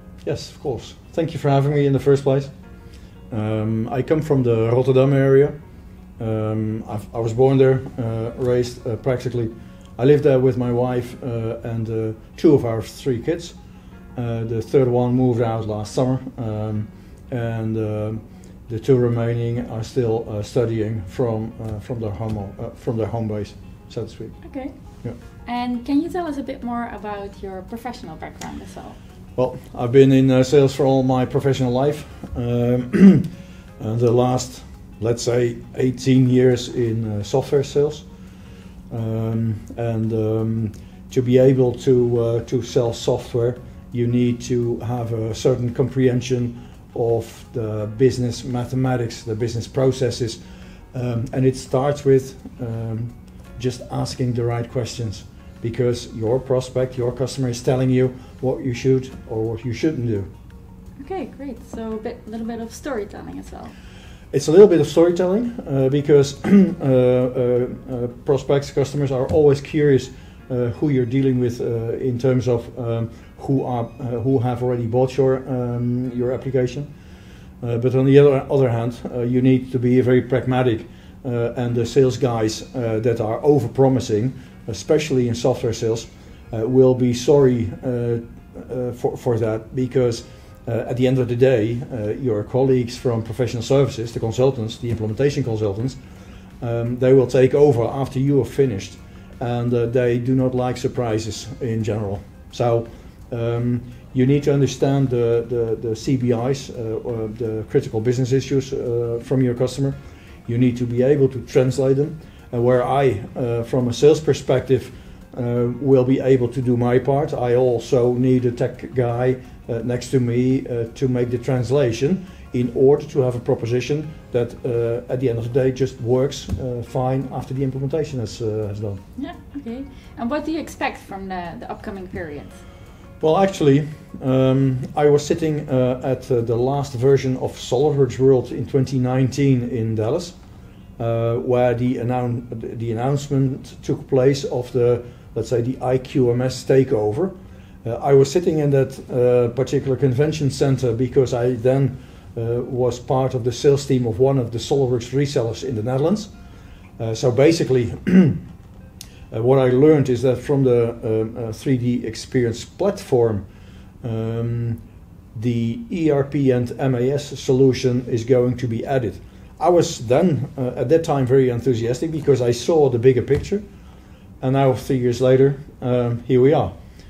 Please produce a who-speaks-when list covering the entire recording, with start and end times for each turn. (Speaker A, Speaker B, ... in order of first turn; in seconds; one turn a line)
Speaker A: 0.2-2.5
Speaker A: 3.3-5.5
Speaker A: 6.2-13.6
Speaker A: 14.2-24.4
Speaker B: 24.4-24.7
Speaker B: 25.5-29.0
Speaker A: 29.4-33.3
Speaker A: 33.8-38.1
Speaker A: 38.9-50.4
Speaker A: 50.9-60.3
Speaker B: 61.0-63.7
Speaker A: 64.3-76.9
Speaker A: 77.6-96.0
Speaker A: 96.6-129.0
Speaker B: 129.2-132.6
Speaker A: 133.2-140.4
Speaker A: 141.0-156.3
Speaker A: 157.0-158.4
Speaker A: 159.3-163.4
Speaker A: 164.0-164.8
Speaker A: 165.3-173.7
Speaker A: 174.4-176.7